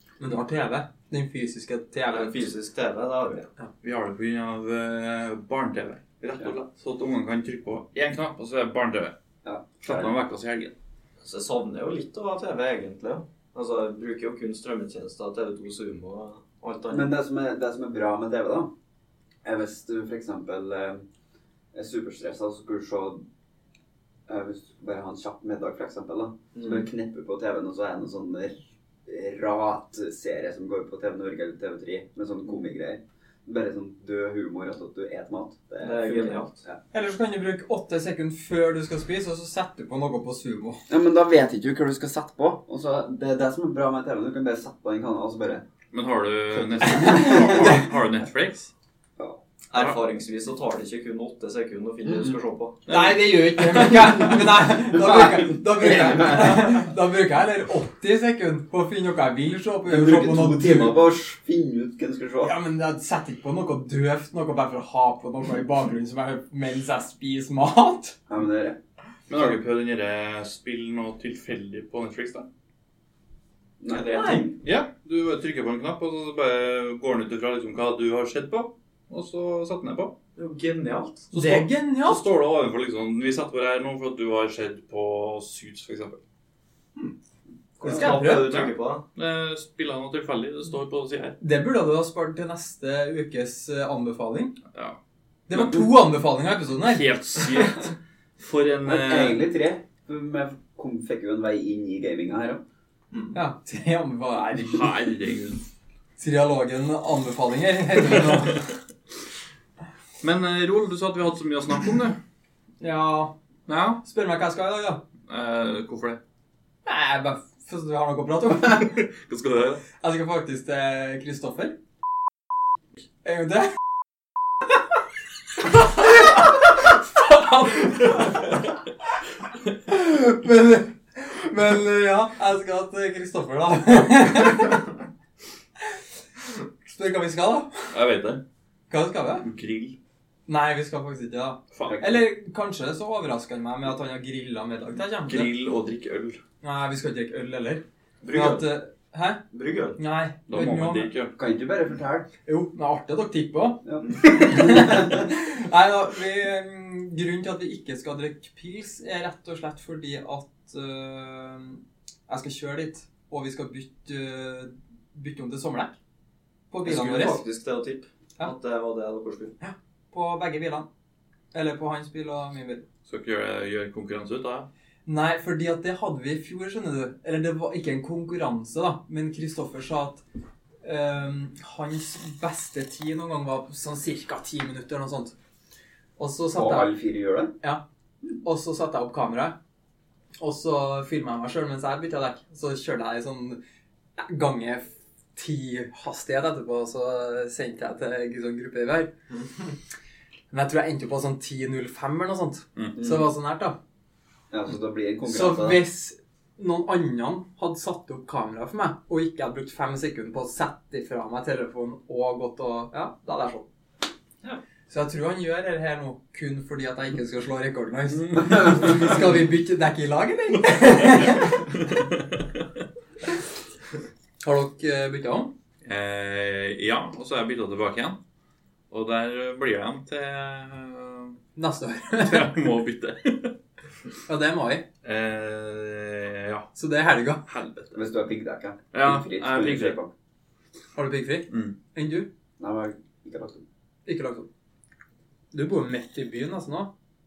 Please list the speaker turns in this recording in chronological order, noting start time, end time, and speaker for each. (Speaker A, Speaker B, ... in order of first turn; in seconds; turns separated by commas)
Speaker A: 0.2-2.5, Speaker B: 2.1-3.5, Speaker C: 3.8-9.2, Speaker D: 9.4-10.1, Speaker C: 9.8-10.7, Speaker B: 11.2-17.1, Speaker D: 16.9-18.7, Speaker D: 19.4-21.1, Speaker D: 21.7-23.2, Speaker D: 24.3-36.8, Speaker B: 26.6-26.9, Speaker B: 35.8-36.6, Speaker A: 36.9-40.8, Speaker D: 40.9-45.6, Speaker C: 45.9-48.7, Speaker D: 46.5-47.8, Speaker A: 46.9-47.9, Speaker B: 49.7-52.8, Speaker C: 49.7-50.0, Speaker D: 52.0-52.4, Speaker C: 52.9-54.3, Speaker A: 52.9-60.9, Speaker D: 54.8-56.9, Speaker D: 59.9-62.5, Speaker A: 62.4-68.2, Speaker D: 68.3-68.8, Speaker C: 69.3-72.5, Speaker D: 73.8-74.5, Speaker A: 73.9-74.5, Speaker B: 74.0-74.5, Speaker C: 74.6-80.2, Speaker B: 80.4-81.2, Speaker C: 81.3-86.2, Speaker A: 81.3-82.2, Speaker A: 87.8-88.5, Speaker B: 87.8-89.0, Speaker C: 88.1-91.4, Speaker A: 91.4-94.6, Speaker A: 95.5-97.0, Speaker C: 95.5-95.9, Speaker C: 96.8-99.4, Speaker D: 98.8-102.6, Speaker A: 103.3-104.9, Speaker C: 104.5-105.7, Speaker A: 106.2-108.6, Speaker C: 110.2-112.2, Speaker A: 112.8-113.3, Speaker C: 113.7-114.0, Speaker A: 114.0-115.0, Speaker C: 115.3-116.2, Speaker A: 116.8-119.0, Speaker C: 118.9-119.8, Speaker A: 120.0-121.8, Speaker A: 123.2-123.8, Speaker A: 127.6-127.9, Speaker A: 129.9-134.9, Speaker A: 136.8-137.9, Speaker C: 137.9-138.4, Speaker A: 138.9-139.5, Speaker C: 139.4-140.0, Speaker A: 140.5-145.5, Speaker C: 141.7-142.0, Speaker C: 145.2-146.4, Speaker A: 146.6-149.4, Speaker B: 148.2-148.7, Speaker B: 149.5-150.0, Speaker A: 150.0-151.1, Speaker C: 150.5-151.3, Speaker D: 151.4-152.3, Speaker A: 152.5-166.0, Speaker D: 153.8-155.2, Speaker A: 166.7-167.4, Speaker B: 166.8-169.6, Speaker A: 169.6-170.9, Speaker A: 171.5-172.8, Speaker C: 173.1-174.7, Speaker A: 175.1-180.2, Speaker A: 180.8-185.3, Speaker A: 186.2-186.9, Speaker D: 186.5-187.5, Speaker A: 188.4-189.6, Speaker A: 190.4-193.6, Speaker A: 194.2-199.1, Speaker A: 200.5-203.8, Speaker D: 203.0-203.3, Speaker D: 204.5-205.8, Speaker A: 205.3-213.7, Speaker A: 214.9-221.7, Speaker C: 220.7-222.7, Speaker A: 224.4-225.5, Speaker C: 225.8-228.2, Speaker C: 228.9-231.4, Speaker A: 231.6-232.6, Speaker C: 232.2-233.6, Speaker A: 234.3-234.9, Speaker C: 235.0-236.7, Speaker A: 236.8-237.4, Speaker C: 237.5-237.9, Speaker D: 237.9-240.1, Speaker C: 238.9-240.0, Speaker A: 241.0-242.3, Speaker C: 241.5-241.8, Speaker D: 242.6-243.6, Speaker A: 244.1-244.5, Speaker A: 245.5-246.9